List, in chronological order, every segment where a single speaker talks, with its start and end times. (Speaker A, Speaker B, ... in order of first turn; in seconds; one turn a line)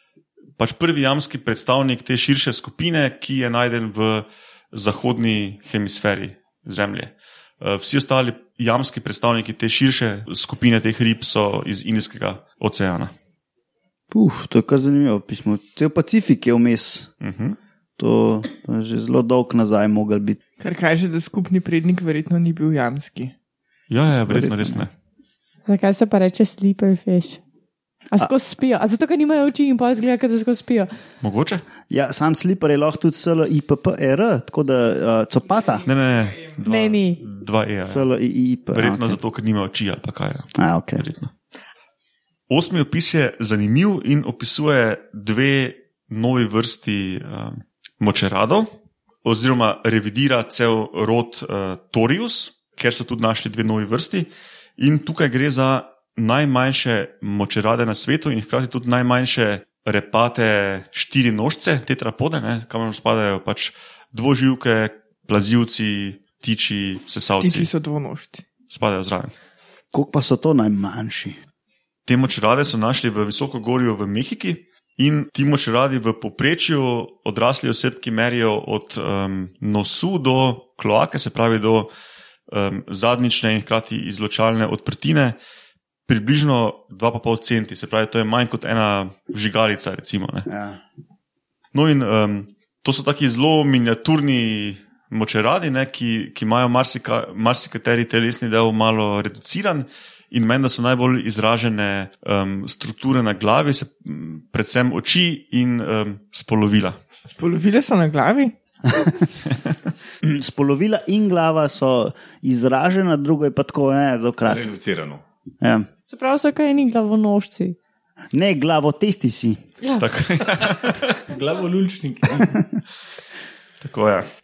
Speaker A: 0.6-13.1
Speaker B: 14.1-17.1
Speaker A: 17.2-17.6
Speaker B: 18.0-20.4
Speaker C: 20.6-23.3
Speaker A: 23.9-24.9
Speaker B: 24.3-24.9
Speaker D: 25.6-27.4
Speaker D: 28.1-30.9
Speaker A: 31.2-31.6
Speaker B: 31.9-35.9
Speaker A: 35.9-38.1
Speaker D: 36.6-37.2
Speaker B: 37.8-39.2
Speaker A: 38.7-41.3
Speaker B: 40.5-41.0
Speaker A: 42.5-48.7
Speaker A: 49.2-67.7
Speaker C: 67.4-68.4
Speaker A: 68.7-69.3
Speaker B: 69.9-71.4
Speaker A: 72.1-81.9
Speaker A: 82.5-85.3
Speaker A: 86.1-90.5
Speaker B: 90.5-90.8
Speaker A: 91.7-107.0
Speaker C: 107.3-108.5
Speaker A: 109.5-109.8
Speaker B: 110.2-114.7
Speaker E: 114.5-115.2
Speaker B: 115.6-115.9
Speaker D: 116.1-117.8
Speaker B: 118.3-119.6
Speaker A: 120.0-121.2
Speaker E: 121.3-122.7
Speaker A: 123.8-124.2